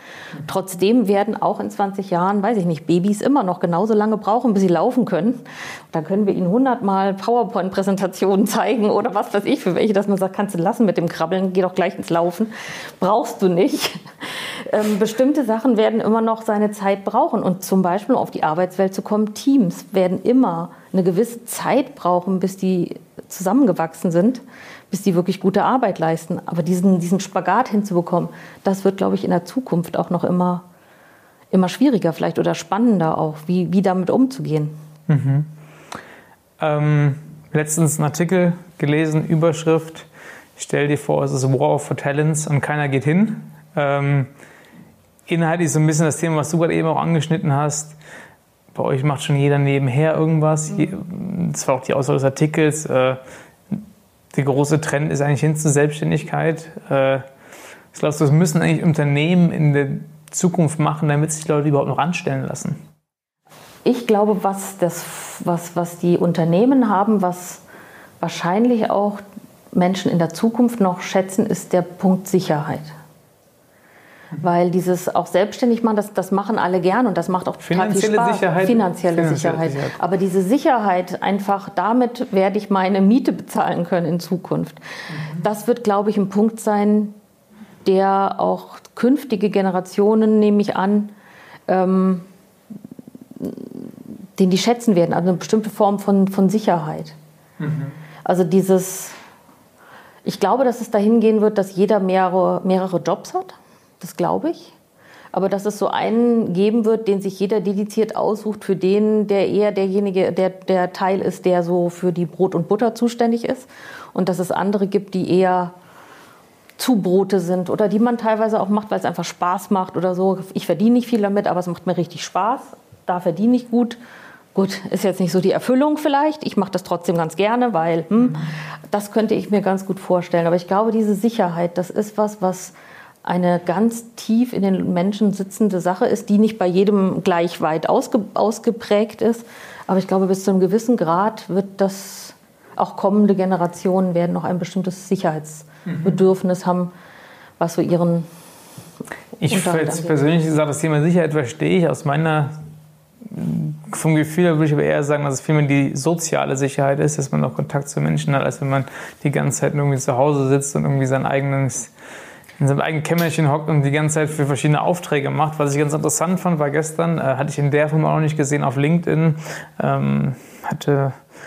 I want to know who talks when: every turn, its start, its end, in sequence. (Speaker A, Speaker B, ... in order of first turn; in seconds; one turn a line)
Speaker A: 0.4-30.6
Speaker A: 31.5-34.8
Speaker B: 35.1-35.5
Speaker B: 36.6-44.3
Speaker B: 45.3-48.0
Speaker B: 48.7-53.2
Speaker B: 54.3-57.3
Speaker B: 57.9-62.8
Speaker A: 63.9-67.6
Speaker A: 68.2-73.0
Speaker A: 74.4-87.2
Speaker B: 77.6-80.0
Speaker A: 87.8-91.1
Speaker A: 91.7-92.3
Speaker A: 93.4-97.2
Speaker B: 97.6-97.9
Speaker A: 98.2-99.2
Speaker A: 100.2-104.8
Speaker A: 105.3-115.7
Speaker A: 116.8-124.0
Speaker A: 124.5-146.9
Speaker A: 147.6-148.3
Speaker B: 149.4-152.5
Speaker A: 149.5-150.2
Speaker B: 153.2-161.9
Speaker B: 162.6-171.2